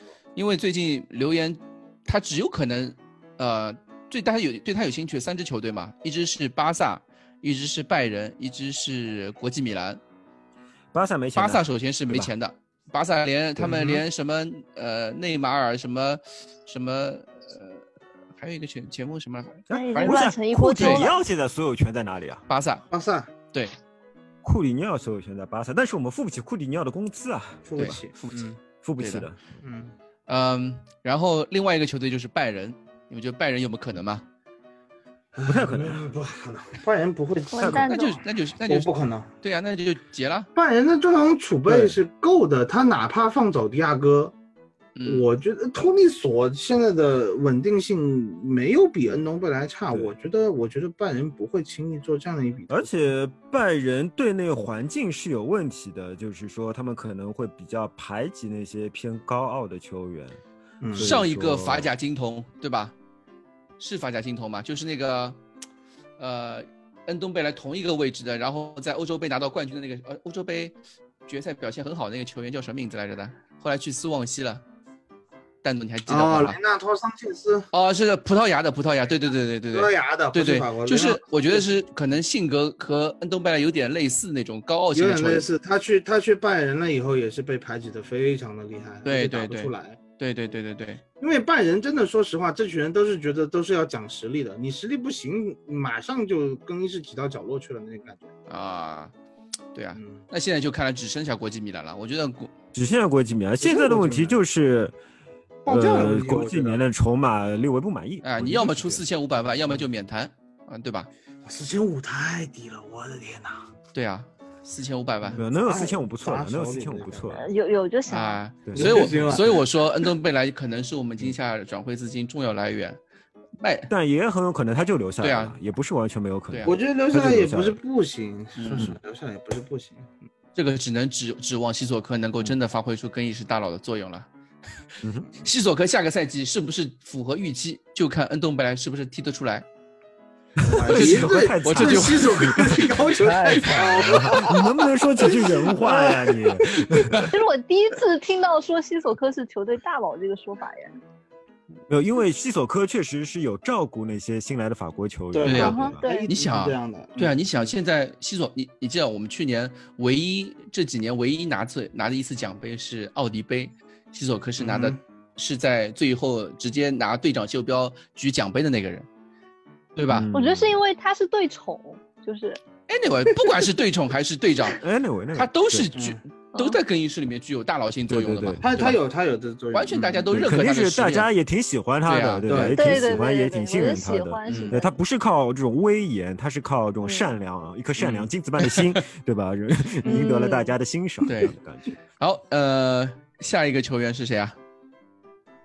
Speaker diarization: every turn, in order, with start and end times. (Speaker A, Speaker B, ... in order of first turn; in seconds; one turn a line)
Speaker A: 0.4-10.0
Speaker B: 10.9-12.3
Speaker A: 11.4-17.8
Speaker B: 13.6-14.0
Speaker A: 18.4-21.1
Speaker B: 19.7-22.4
Speaker C: 19.7-21.1
Speaker A: 22.5-22.9
Speaker D: 22.9-23.3
Speaker B: 24.4-27.9
Speaker D: 27.7-28.6
Speaker A: 27.8-29.3
Speaker B: 28.8-29.4
Speaker D: 29.6-29.9
Speaker A: 30.3-34.3
Speaker D: 35.3-39.3
Speaker B: 35.4-36.0
Speaker C: 37.5-38.2
Speaker B: 37.6-37.9
Speaker A: 37.9-38.9
Speaker A: 39.4-40.5
Speaker D: 40.6-44.3
Speaker A: 41.7-41.9
Speaker A: 45.0-45.3
Speaker D: 45.1-52.9
Speaker B: 52.7-60.4
Speaker D: 60.8-61.2
Speaker B: 60.9-61.9
Speaker A: 61.0-63.0
Speaker A: 63.8-65.4
Speaker A: 66.2-70.8
Speaker A: 71.3-74.6
Speaker A: 75.6-76.6
Speaker D: 76.1-77.7
Speaker A: 77.7-85.5
Speaker D: 79.7-81.7
Speaker D: 84.9-90.0
Speaker A: 89.0-91.0
Speaker D: 91.2-98.3
Speaker A: 98.5-99.1
Speaker A: 99.7-102.5
Speaker D: 100.0-100.3
Speaker B: 102.7-105.0
Speaker D: 103.6-104.4
Speaker D: 105.7-106.8
Speaker B: 105.7-109.0
Speaker A: 108.2-111.1
Speaker D: 111.4-113.7
Speaker A: 113.9-115.4
Speaker D: 115.3-117.4
Speaker B: 115.3-117.4
Speaker C: 117.3-118.4
Speaker A: 118.1-123.0
Speaker B: 118.7-119.5
Speaker D: 118.7-119.7
Speaker A: 123.6-123.9
Speaker B: 123.9-127.8
Speaker A: 125.2-125.5
Speaker A: 126.5-126.7
Speaker D: 126.6-130.1
Speaker A: 128.6-128.9
Speaker A: 130.6-134.3
Speaker B: 135.0-135.3
Speaker A: 135.4-139.7
Speaker B: 140.6-147.3
Speaker D: 140.6-146.6
Speaker A: 140.7-144.6
Speaker A: 147.1-147.3
Speaker C: 147.3-150.9
Speaker B: 151.9-156.0
Speaker D: 155.3-157.4
Speaker A: 155.4-169.1
Speaker C: 155.5-156.3
Speaker D: 164.6-165.0
Speaker A: 170.0-170.3
Speaker B: 170.1-170.8
Speaker C: 170.3-172.6
Speaker A: 172.9-174.8
Speaker B: 174.7-175.9
Speaker A: 175.3-179.0
Speaker C: 176.6-176.8
Speaker B: 178.1-178.7
Speaker D: 178.6-180.3
Speaker A: 179.7-181.3
Speaker B: 180.3-191.9
Speaker A: 182.1-182.5
Speaker D: 182.5-183.1
Speaker C: 182.6-185.0
Speaker A: 184.5-184.8
Speaker C: 187.0-187.3
Speaker A: 188.0-189.0
Speaker C: 190.1-190.7
Speaker A: 191.3-191.5
Speaker A: 192.2-194.6